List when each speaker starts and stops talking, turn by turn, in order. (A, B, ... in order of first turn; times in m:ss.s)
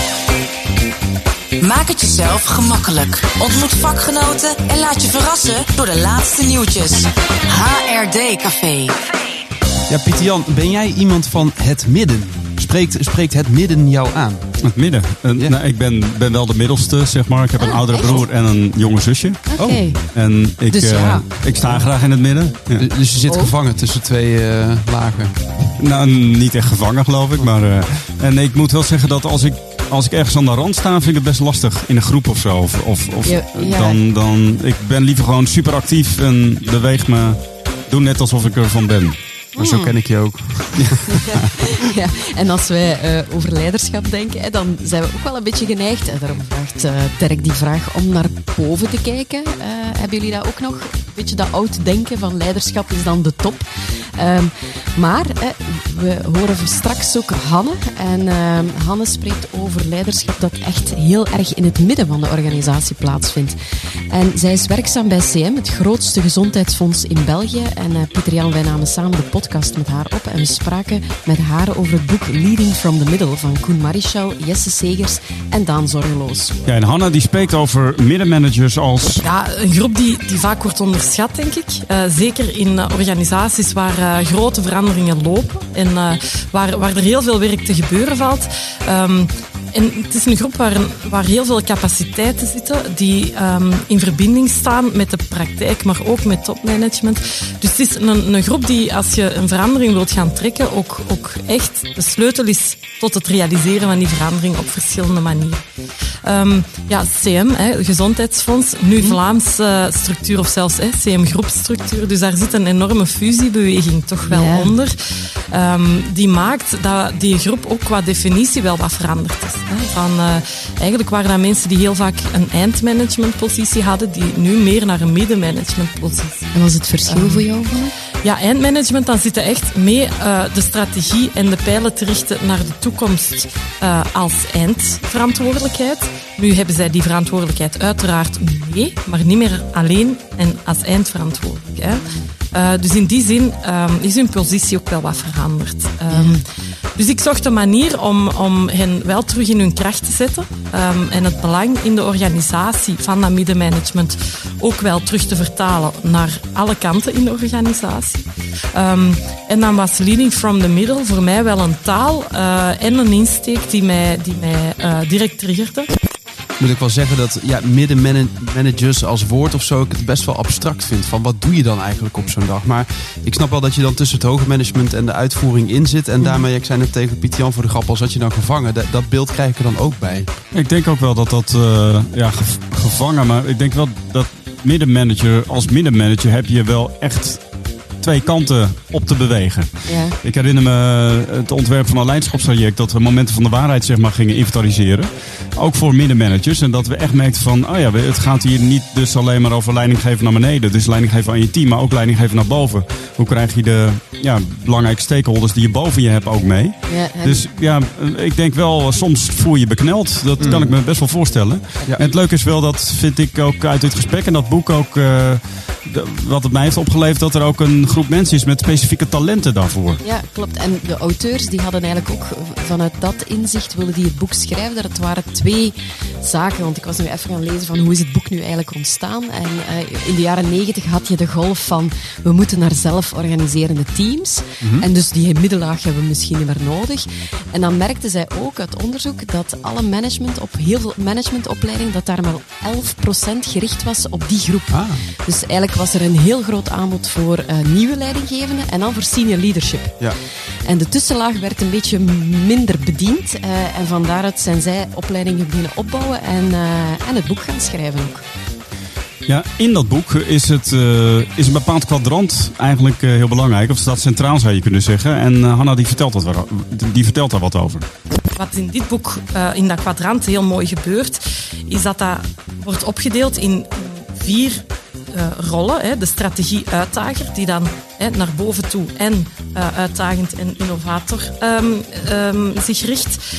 0:01.6-0:09.1 A
0:09.9-0:14.5 B
0:14.6-0:22.8 C
0:17.6-0:18.2 D
0:19.5-0:20.1 D
0:19.6-0:19.8 B
0:20.7-0:21.6 D
0:22.8-0:25.6 B
0:23.3-0:23.6 D
0:25.8-0:39.2 C
0:33.2-0:34.0 D
0:39.6-0:40.0 D
0:39.6-0:41.3 B
0:41.6-1:03.6 D
1:04.1-1:16.6 D
1:16.7-1:19.2 C
1:19.2-1:45.6 E
1:46.2-1:55.0 E
1:54.3-1:54.7 D
1:55.5-2:07.5 E
2:06.5-2:08.0 D
2:08.2-2:26.4 E
2:26.1-2:26.4 D
2:27.0-2:45.9 E
2:46.6-3:00.3 B
3:00.5-3:40.0 C
3:09.9-3:10.2 D
3:26.9-3:27.5 D
3:30.4-3:30.8 B
3:40.0-4:10.0 D
3:54.6-3:54.9 B
4:04.7-4:05.0 B
4:10.6-4:18.2 D
4:19.3-4:27.9 C
4:28.4-4:43.2 E